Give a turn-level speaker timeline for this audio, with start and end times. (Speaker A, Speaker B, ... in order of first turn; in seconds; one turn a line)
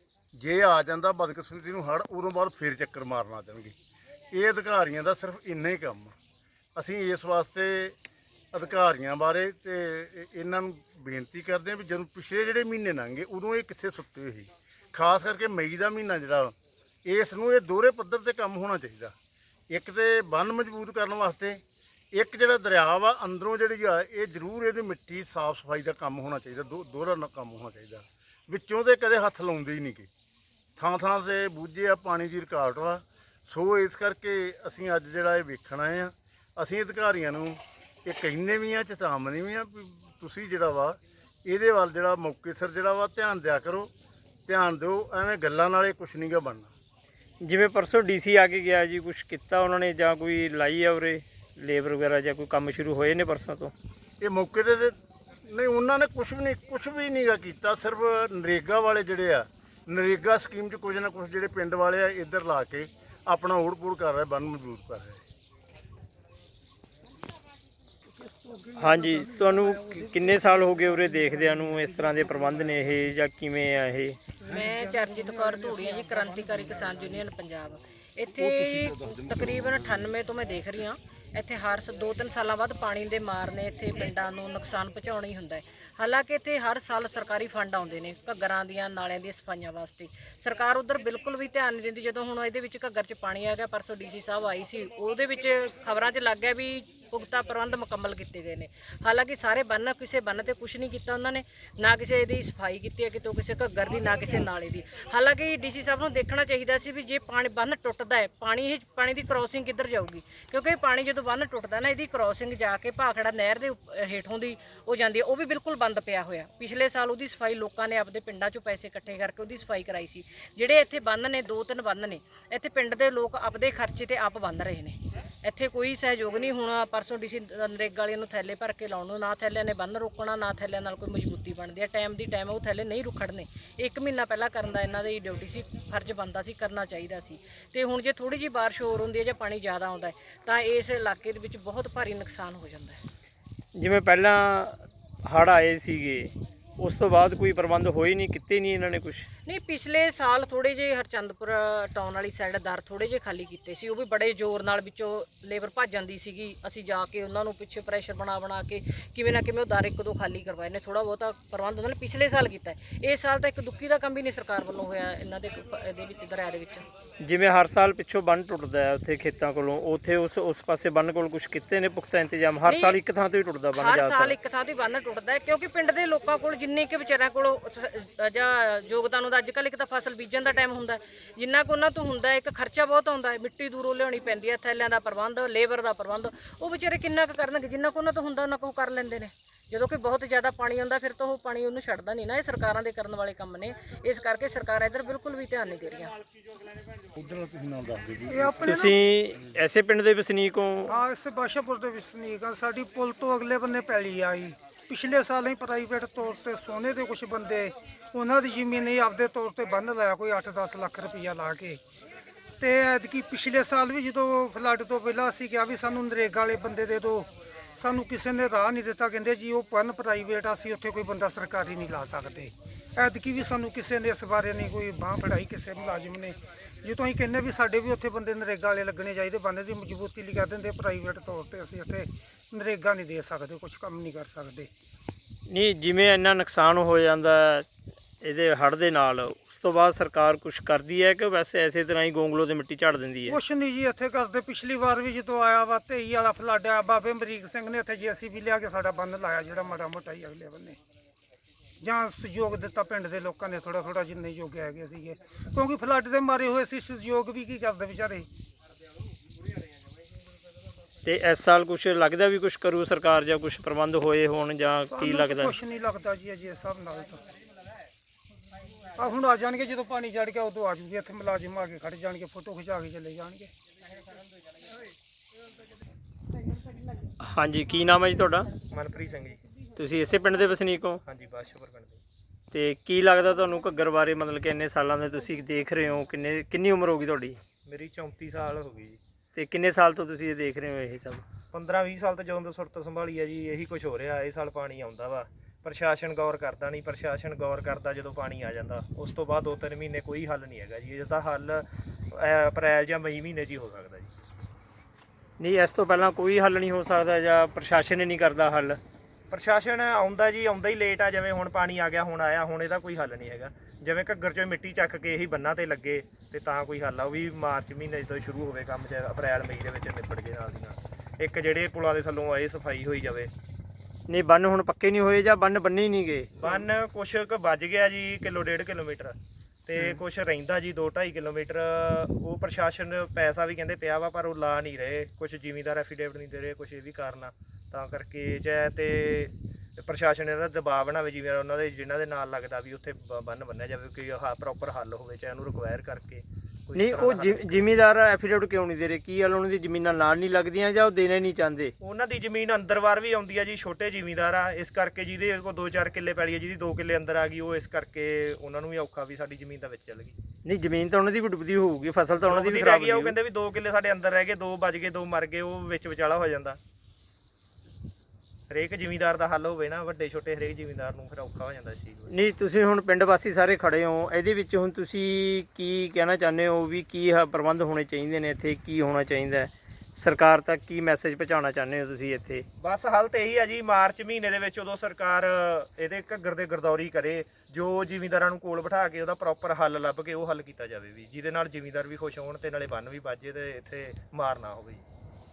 Speaker A: 0.3-3.7
Speaker A: 4.3-6.1
Speaker A: 6.8-8.0
Speaker A: 8.5-16.6
Speaker A: 17.1-19.1
Speaker A: 19.7-21.6
Speaker A: 22.1-30.1
Speaker A: 30.8-43.9
Speaker A: 44.5-46.7
Speaker B: 47.4-53.7
Speaker A: 54.2-65.2
Speaker C: 68.2-70.2
Speaker B: 68.8-74.2
Speaker C: 71.8-72.4
Speaker C: 74.4-77.1
Speaker D: 74.5-143.0
Speaker A: 78.4-80.1
Speaker B: 143.8-149.3
Speaker D: 149.4-166.8
Speaker B: 167.2-174.4
Speaker D: 172.7-173.0
Speaker D: 173.7-196.1
Speaker A: 197.1-198.8
Speaker C: 198.3-199.0
Speaker B: 198.6-200.9
Speaker C: 200.9-211.8
Speaker C: 212.6-234.7
Speaker B: 235.5-237.7
Speaker B: 238.2-243.4
Speaker C: 243.2-250.8
Speaker C: 251.8-258.3
Speaker B: 261.1-265.6
Speaker C: 264.9-267.2
Speaker C: 268.9-273.5
Speaker B: 277.2-278.5
Speaker E: 278.7-279.4
Speaker B: 279.8-281.0
Speaker E: 281.0-282.0
Speaker B: 282.5-287.4
Speaker E: 287.6-289.0
Speaker B: 289.3-291.2
Speaker E: 291.5-304.1
Speaker B: 305.4-308.8
Speaker E: 309.3-323.3
Speaker B: 324.1-326.3
Speaker E: 326.4-329.1
Speaker E: 329.7-347.6
Speaker B: 346.8-351.7
Speaker E: 351.8-360.2
Speaker B: 360.4-363.2
Speaker E: 362.2-366.6
Speaker E: 368.5-372.1
Speaker B: 372.1-382.4
Speaker E: 382.6-394.9